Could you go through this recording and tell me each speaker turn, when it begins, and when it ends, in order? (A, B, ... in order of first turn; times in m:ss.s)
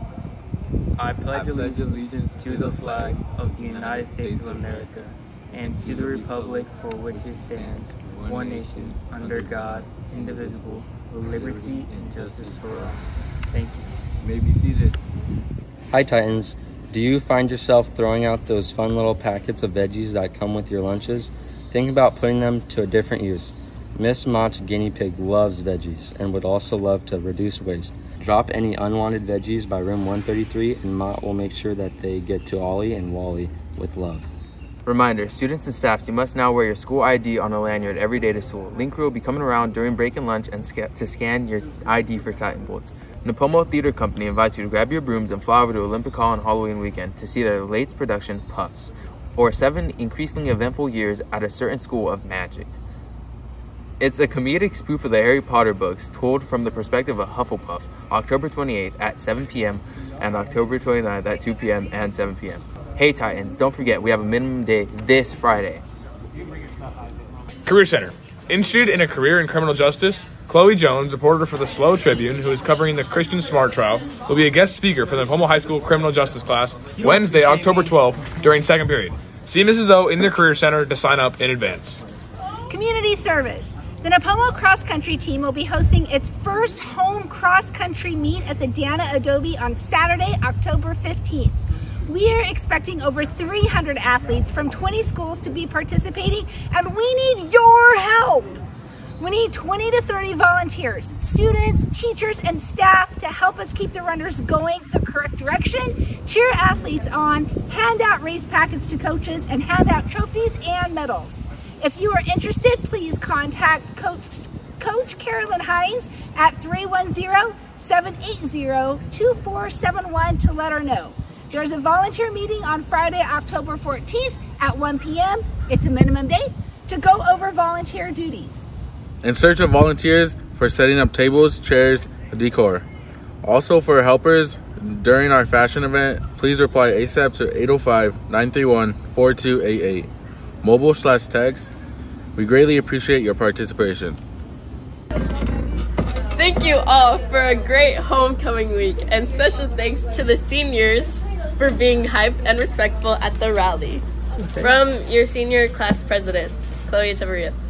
0:01.0-0:13.9 A
0:01.3-0:04.9 B
0:05.6-0:13.1 B
0:14.2-0:15.0 B
0:15.9-0:34.3 C
0:34.8-0:52.7 D
0:54.0-1:05.8 D
1:07.6-1:22.0 E
1:22.7-1:31.6 F
1:32.1-1:38.6 F
1:39.2-2:08.7 F
2:09.2-2:12.8 G
2:13.4-2:20.1 G
2:20.6-2:21.7 G
2:22.4-2:24.2 G
2:26.4-2:34.0 H
2:34.6-2:37.6 H